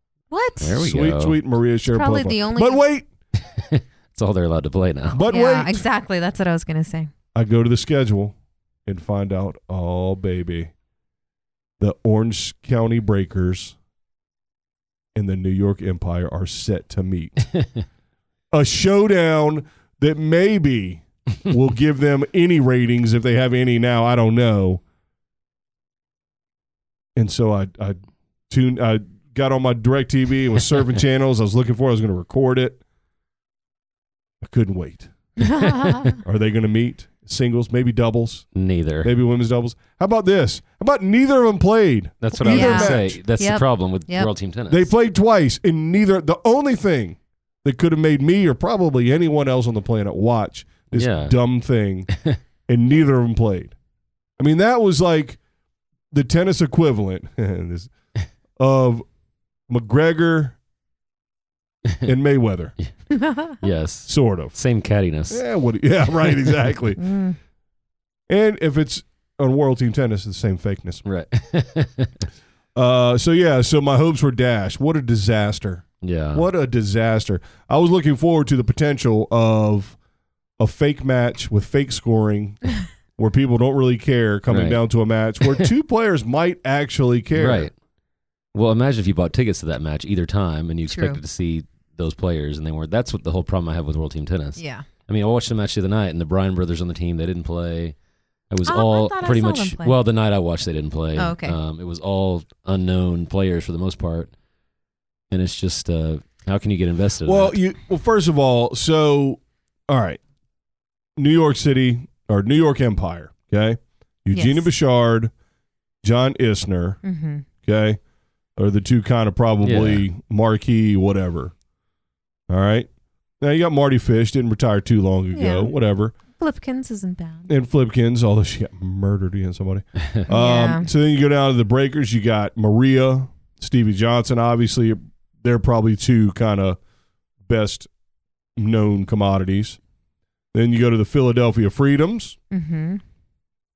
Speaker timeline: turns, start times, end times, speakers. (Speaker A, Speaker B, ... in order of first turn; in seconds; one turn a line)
Speaker A: 0.3-0.8
Speaker B: 0.6-1.4
Speaker C: 0.8-3.1
Speaker A: 1.9-2.8
Speaker B: 3.4-5.2
Speaker C: 5.1-5.8
Speaker A: 5.3-7.1
Speaker C: 7.3-10.7
Speaker C: 11.8-13.8
Speaker C: 15.1-17.4
Speaker C: 18.5-24.8
Speaker C: 27.1-28.0
Speaker C: 28.5-32.8
Speaker C: 34.4-35.1
Speaker A: 35.4-36.2
Speaker C: 36.1-38.5
Speaker B: 38.5-39.1
Speaker C: 39.0-43.2
Speaker B: 42.2-44.9
Speaker A: 42.4-44.3
Speaker C: 44.7-52.1
Speaker B: 50.9-51.4
Speaker B: 52.1-52.4
Speaker C: 52.7-53.7
Speaker C: 54.4-55.4
Speaker C: 56.1-57.9
Speaker C: 58.6-59.0
Speaker C: 59.7-60.5
Speaker C: 62.0-62.7
Speaker A: 63.1-63.6
Speaker B: 63.6-65.4
Speaker C: 64.0-64.5
Speaker C: 65.3-67.0
Speaker A: 67.0-67.4
Speaker C: 68.3-71.0
Speaker B: 71.0-72.1
Speaker C: 72.7-80.0
Speaker B: 76.0-76.4
Speaker C: 80.6-82.6
Speaker C: 83.2-87.7
Speaker B: 84.5-84.8
Speaker B: 87.3-87.7
Speaker B: 88.5-97.9
Speaker A: 90.9-91.2
Speaker A: 94.6-94.8
Speaker B: 98.5-104.3
Speaker A: 98.7-100.0
Speaker A: 101.2-101.6
Speaker B: 105.3-107.6
Speaker C: 107.2-110.2
Speaker C: 111.2-115.3
Speaker A: 114.3-114.7
Speaker C: 116.0-117.0
Speaker A: 117.0-117.5
Speaker C: 117.6-118.0
Speaker C: 118.6-121.5
Speaker B: 119.6-120.0
Speaker C: 122.5-122.9
Speaker C: 123.4-126.1
Speaker A: 125.3-125.7
Speaker A: 126.3-127.5
Speaker C: 127.5-136.8
Speaker A: 130.3-130.9
Speaker C: 137.4-137.9
Speaker C: 138.6-139.8
Speaker C: 140.5-142.4
Speaker A: 142.5-143.0